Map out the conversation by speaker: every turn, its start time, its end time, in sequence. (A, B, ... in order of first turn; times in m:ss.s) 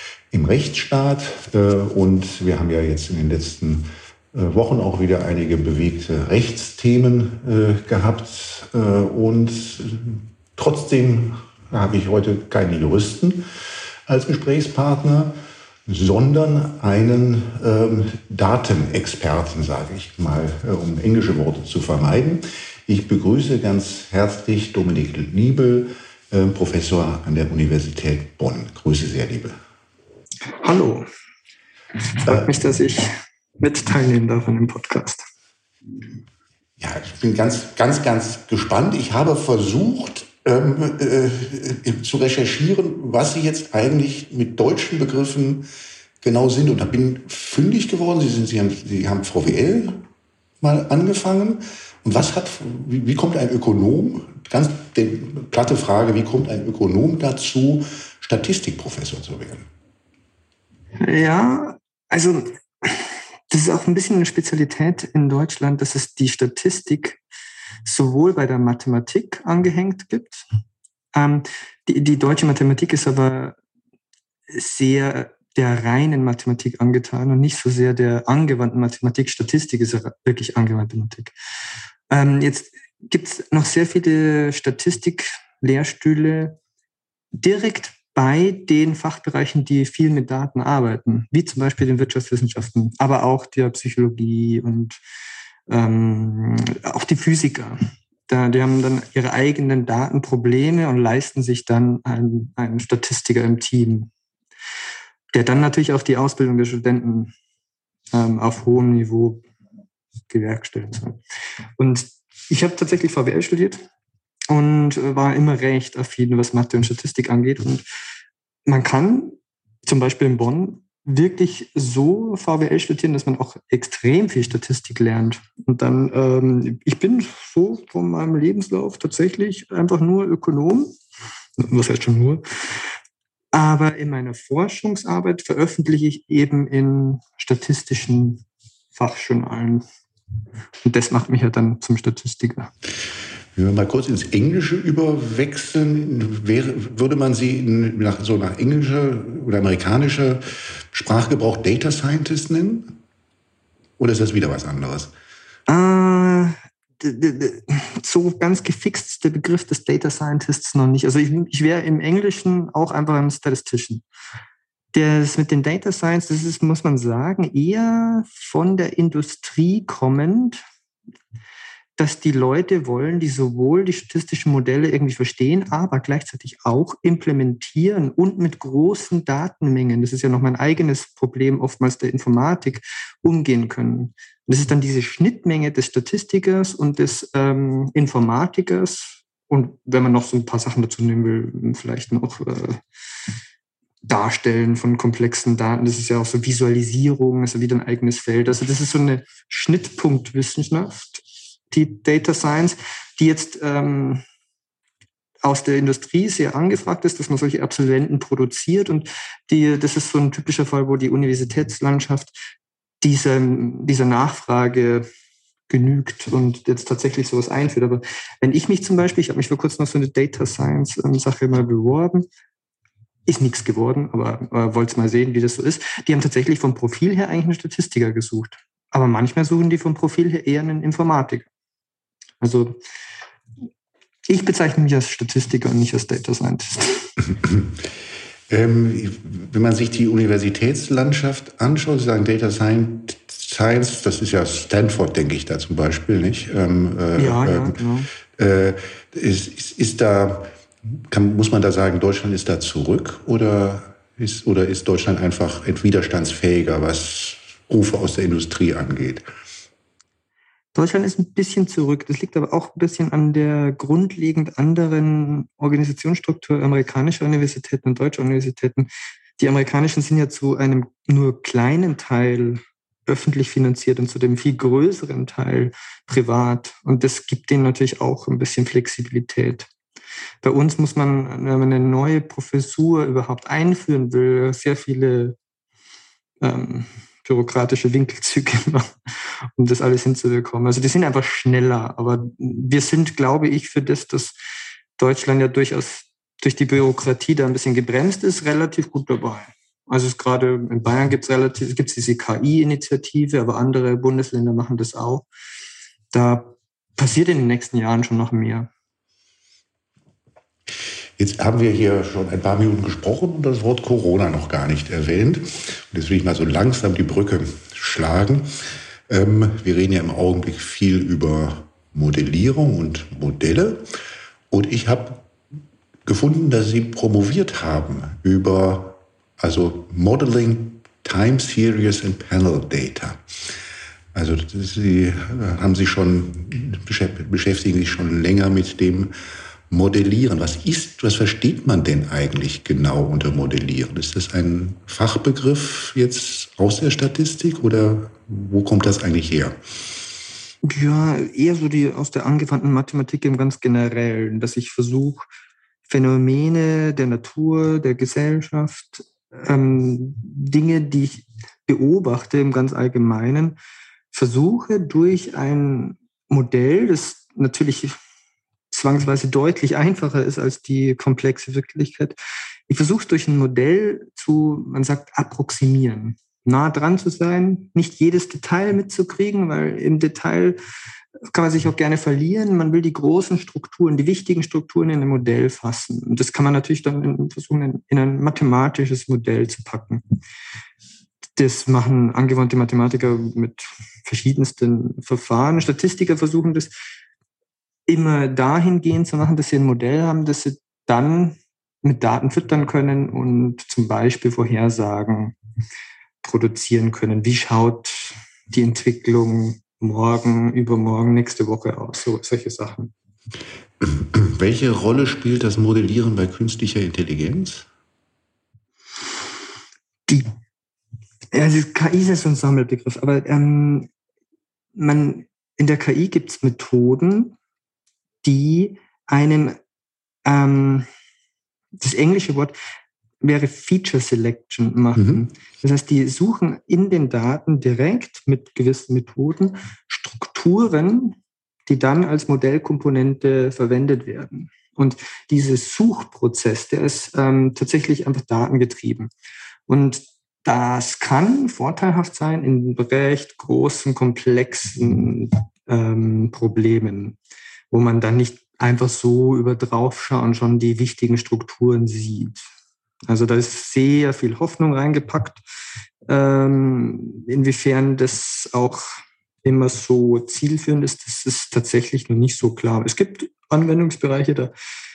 0:00.3-0:13.4 A
0:14.1-0:15.3 A
0:15.9-0:29.6 A
0:30.6-0:31.1 B
0:32.2-0:33.1 B
0:32.3-0:32.6 A
0:33.6-0:35.2 B
0:36.8-0:45.7 A
0:46.2-0:50.0 A
0:50.6-0:59.7 A
1:01.0-1:07.2 B
1:07.8-1:10.4 B
1:11.1-1:13.6 B
1:14.5-1:21.3 B
1:22.1-1:26.6 B
1:27.4-1:35.0 B
1:35.7-1:44.1 B
1:45.3-1:47.3 B
1:48.1-1:49.4 B
1:50.3-1:51.2 B
1:51.8-1:53.8 B
1:54.5-1:57.8 B
1:58.6-2:11.0 B
2:11.6-2:12.4 B
2:13.5-2:19.8 B
2:20.8-2:22.7 B
2:23.6-2:33.0 A
2:34.0-2:35.1 A
2:35.7-2:44.0 B
2:44.9-2:50.6 B
2:52.0-3:12.8 B
3:14.0-3:24.2 B
3:25.4-3:32.4 B
3:33.0-3:35.0 B
3:35.7-3:42.3 B
3:43.3-3:51.5 B
3:52.4-3:52.8 B
3:54.3-3:57.1 B
3:58.5-4:07.8 A
4:07.2-4:08.1 B
4:08.3-4:10.5 A
4:11.1-4:19.2 A
4:20.7-4:39.7 B
4:40.4-4:45.4 B
4:46.4-4:49.0 B
4:49.6-4:54.4 B
4:55.0-5:05.3 B
5:06.1-5:08.7 B
5:11.2-5:18.5 A
5:19.1-5:23.8 A
5:24.5-5:25.3 A
5:26.0-5:33.2 A
5:34.1-5:39.1 A
5:39.7-5:49.6 A
5:50.6-5:55.3 B
5:55.9-6:03.6 B
6:04.1-6:08.0 B
6:08.7-6:12.2 B
6:12.7-6:20.6 B
6:21.2-6:30.0 B
6:31.4-6:36.7 B
6:37.9-6:45.3 B
6:46.2-6:52.9 B
6:53.8-6:57.7 A
7:01.3-7:03.9 B
7:04.7-7:07.4 B
7:08.2-7:09.6 B
7:10.2-7:10.9 B
7:11.8-7:12.5 B
7:13.2-7:29.1 B
7:15.0-7:15.2 A
7:29.7-7:37.2 B
7:37.7-7:42.4 B
7:43.1-7:45.4 B
7:46.1-7:54.5 B